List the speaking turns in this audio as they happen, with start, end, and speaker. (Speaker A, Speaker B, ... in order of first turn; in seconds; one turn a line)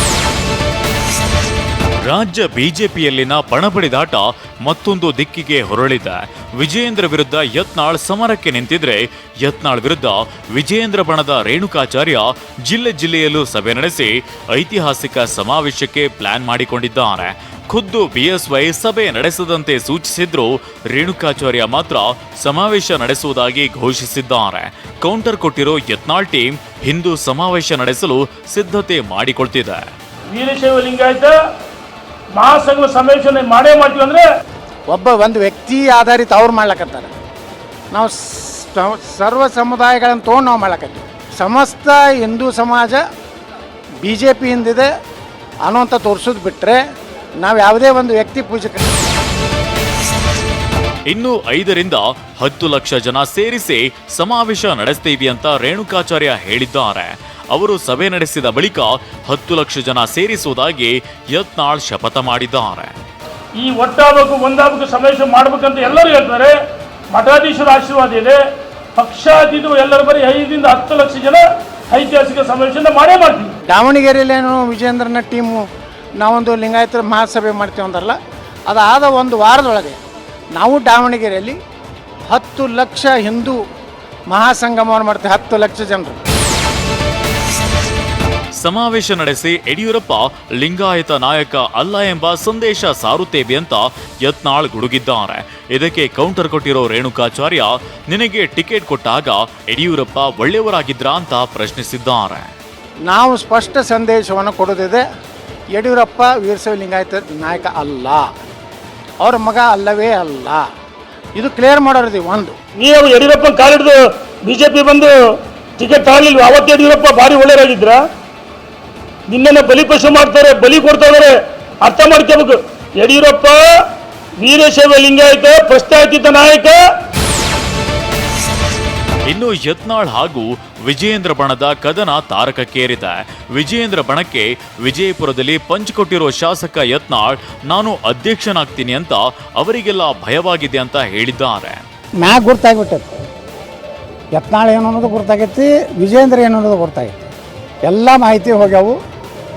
Speaker A: 2.0-29.9
Speaker B: 30.3-31.4
Speaker B: 32.4-34.2
Speaker C: 34.9-37.1
Speaker C: 37.9-43.0
Speaker C: 44.0-44.9
Speaker C: 45.6-46.8
Speaker C: 47.4-48.8
Speaker A: 51.1-63.0
Speaker B: 63.6-66.6
Speaker B: 67.1-68.4
Speaker B: 69.0-73.5
Speaker C: 73.7-75.6
Speaker C: 76.2-78.2
Speaker C: 78.7-80.0
Speaker C: 80.5-81.6
Speaker C: 82.3-83.6
Speaker C: 84.3-86.2
Speaker A: 88.6-102.5
Speaker C: 103.1-105.0
Speaker C: 105.7-108.2
Speaker C: 109.2-110.6
Speaker C: 111.3-112.5
Speaker B: 112.8-118.0
Speaker B: 119.3-123.7
Speaker B: 124.4-126.8
Speaker A: 129.3-141.8
Speaker C: 142.2-143.2
Speaker C: 144.3-147.2
Speaker C: 147.8-148.9